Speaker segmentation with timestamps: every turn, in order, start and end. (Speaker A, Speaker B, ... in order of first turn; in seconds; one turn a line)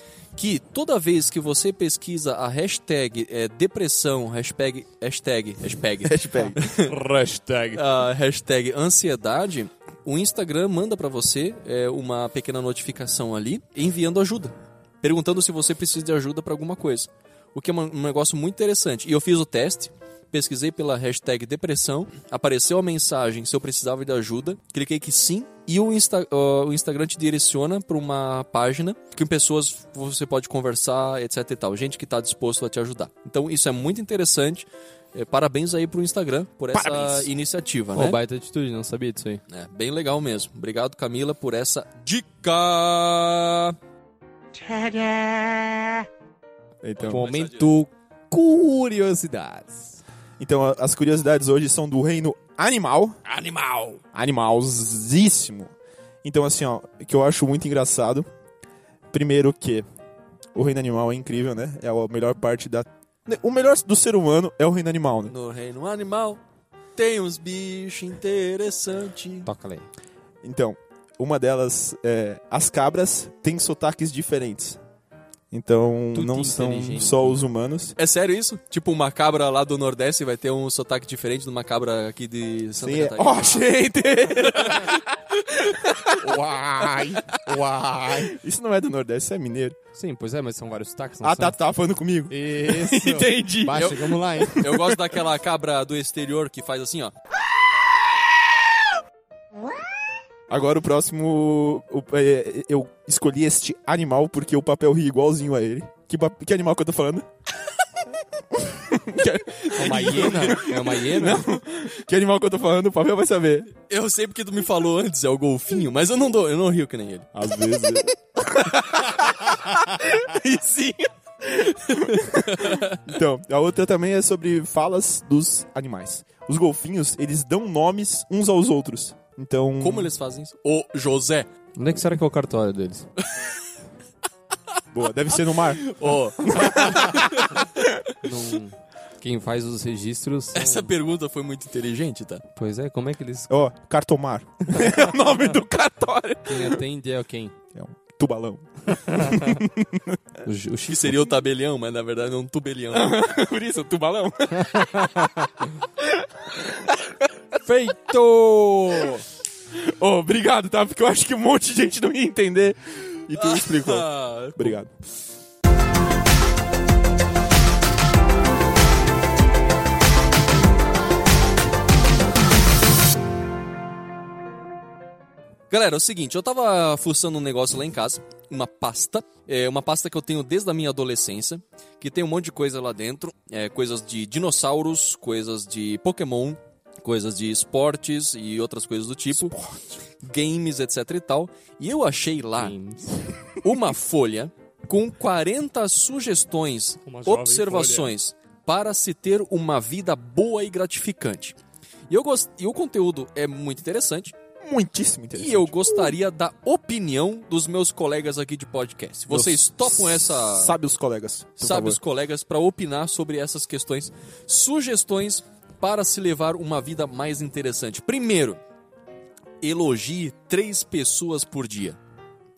Speaker A: 0.3-7.0
Speaker B: 6.0-6.6
Speaker C: 6.8-7.8
Speaker A: 7.7-38.2
Speaker B: 36.7-37.3
Speaker C: 37.9-39.4
Speaker A: 39.5-43.8
Speaker B: 44.6-45.7
Speaker B: 46.8-47.3
Speaker A: 47.0-47.7
Speaker C: 47.0-50.0
Speaker B: 50.4-53.2
Speaker A: 53.3-54.0
Speaker B: 54.1-55.7
Speaker B: 56.2-58.3
Speaker B: 59.1-59.9
Speaker B: 60.5-65.3
Speaker A: 65.3-66.4
Speaker A: 67.0-69.5
Speaker C: 69.4-69.9
Speaker B: 70.4-74.8
Speaker B: 75.5-77.9
Speaker C: 76.1-77.4
Speaker A: 78.0-83.6
Speaker B: 82.8-85.0
Speaker A: 84.5-85.0
Speaker B: 85.7-89.8
Speaker C: 87.5-88.3
Speaker C: 89.9-91.6
Speaker B: 91.2-95.0
Speaker C: 92.3-94.7
Speaker A: 93.7-97.1
Speaker B: 100.5-107.3
Speaker B: 108.1-113.7
Speaker C: 109.7-111.5
Speaker A: 113.9-117.3
Speaker B: 117.3-130.1
Speaker A: 122.3-123.0
Speaker A: 129.8-131.5
Speaker C: 131.8-133.1
Speaker B: 134.9-137.6
Speaker A: 135.8-137.7
Speaker C: 138.2-140.9
Speaker A: 140.5-142.4
Speaker C: 142.6-143.5
Speaker B: 143.5-146.8
Speaker C: 146.4-147.5
Speaker B: 147.7-150.2
Speaker C: 149.1-149.6
Speaker C: 150.4-151.3
Speaker A: 150.9-153.1
Speaker B: 152.9-155.5
Speaker C: 154.7-155.5
Speaker B: 156.0-157.2
Speaker C: 157.6-159.2
Speaker B: 159.7-164.9
Speaker A: 163.3-164.8
Speaker A: 175.7-189.5
Speaker B: 189.3-190.0
Speaker A: 190.2-192.7
Speaker C: 192.6-193.4
Speaker A: 193.6-201.6
Speaker C: 197.1-198.1
Speaker A: 202.1-204.3
Speaker B: 204.6-206.1
Speaker A: 205.3-210.7
Speaker B: 209.3-212.0
Speaker A: 211.6-218.6
Speaker A: 219.6-222.0